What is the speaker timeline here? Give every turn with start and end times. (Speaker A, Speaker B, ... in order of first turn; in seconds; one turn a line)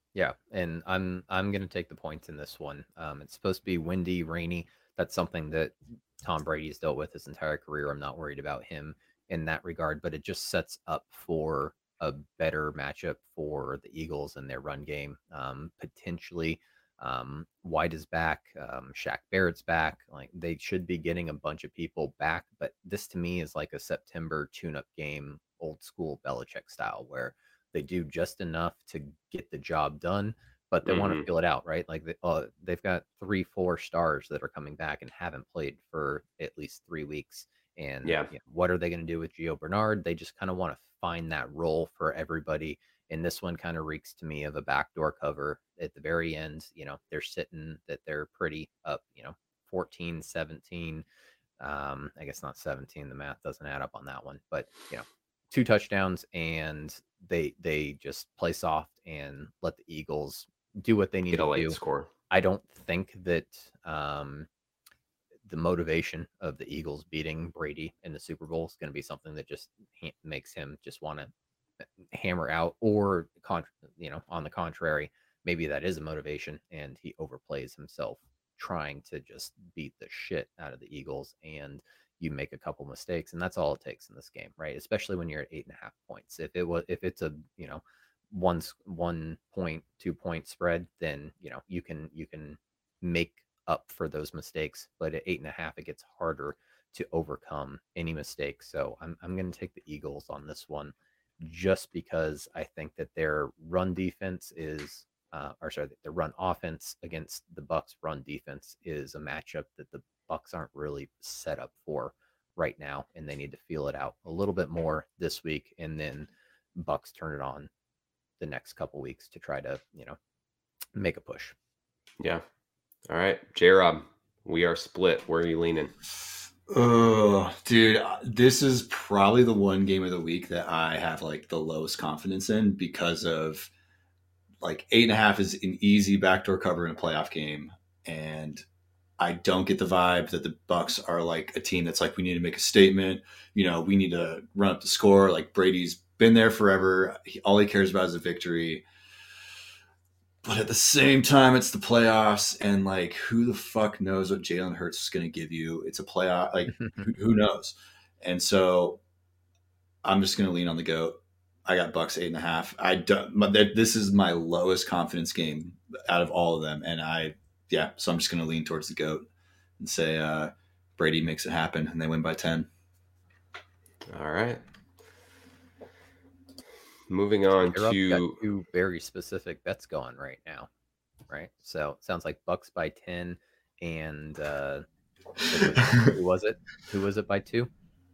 Speaker A: 0.1-51.0
Speaker B: 30.9-31.3
Speaker B: 38.0-38.3
Speaker A: 51.6-61.8
Speaker B: 61.3-62.1
Speaker A: 62.3-64.5
Speaker A: 65.5-71.3
Speaker A: 72.0-117.7
Speaker A: 118.4-120.2
Speaker A: 121.0-121.5
Speaker B: 123.1-125.9
Speaker C: 126.7-133.7
Speaker C: 134.6-138.7
Speaker C: 139.2-148.8
Speaker C: 150.4-159.0
Speaker A: 156.7-157.1
Speaker C: 160.0-169.3
Speaker C: 169.8-172.7
Speaker B: 174.1-174.6
Speaker B: 177.1-178.4
Speaker A: 177.5-180.7
Speaker A: 181.3-184.8
Speaker A: 185.5-187.7
Speaker C: 185.6-186.1